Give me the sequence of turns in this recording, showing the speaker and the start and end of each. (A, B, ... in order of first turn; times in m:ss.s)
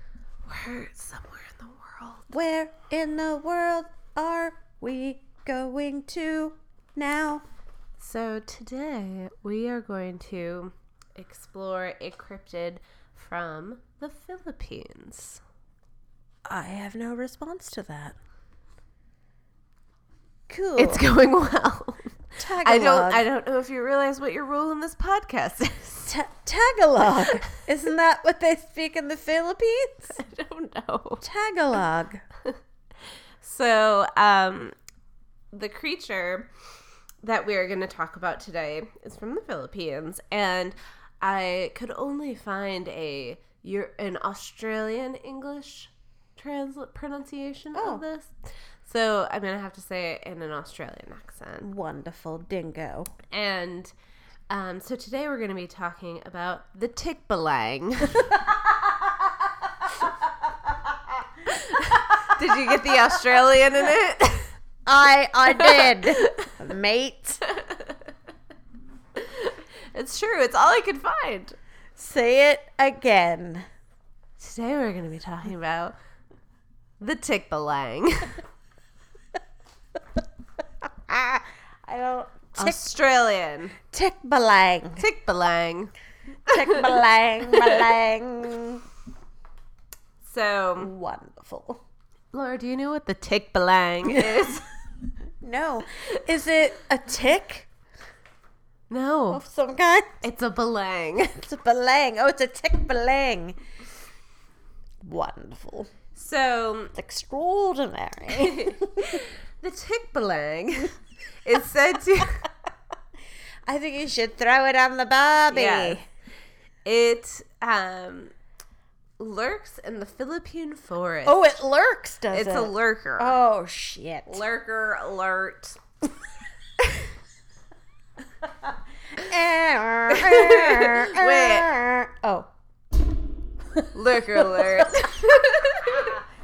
0:00.5-0:02.3 A
0:02.3-0:07.4 B
0:08.0-0:15.4 A
0:16.5-0:18.2 B
0:20.5-0:21.0 B
0:20.8-0:26.1 A
0:22.4-0:23.3 B
0:26.1-0:30.2 B
0:30.1-0:31.2 A
0:31.2-0:32.2 B
0:33.4-0:34.8 A
0:35.5-0:36.5 A
0:37.2-0:51.7 A
0:47.8-0:48.0 B
0:51.6-0:53.1 B
0:53.3-0:53.9 A
0:54.5-0:58.4 A
0:58.3-0:59.3 B
0:59.9-1:01.0 B
1:01.5-1:04.5 A
1:02.4-1:03.0 B
1:04.9-1:07.4 B
1:05.5-1:06.5 A
1:07.4-1:08.1 A
1:09.2-1:11.6 A
1:12.0-1:13.7 B
1:14.4-1:16.0 A
1:17.0-1:18.4 A
1:21.1-1:22.8 B
1:22.6-1:23.8 A
1:23.9-1:25.0 B
1:25.0-1:25.9 A
1:26.5-1:28.8 B
1:26.5-1:26.9 A
1:27.5-1:27.9 A
1:30.2-1:30.9 A
1:30.8-1:31.8 B
1:32.3-1:34.7 A
1:35.4-1:37.7 B
1:38.9-1:39.4 A
1:39.3-1:40.2 B
1:40.2-1:41.4 A
1:41.3-1:43.6 B
1:45.0-1:45.9 B
1:46.2-1:46.9 A
1:47.0-1:49.2 B
1:48.3-1:52.5 A
1:53.7-1:56.0 B
1:55.5-1:56.0 A
1:56.8-1:58.3 A
1:59.2-2:01.4 A
2:01.3-2:04.4 B
2:02.3-2:03.4 A
2:04.3-2:05.8 A
2:08.6-2:12.5 B
2:10.1-2:11.8 A
2:13.7-2:16.2 B
2:13.9-2:16.2 A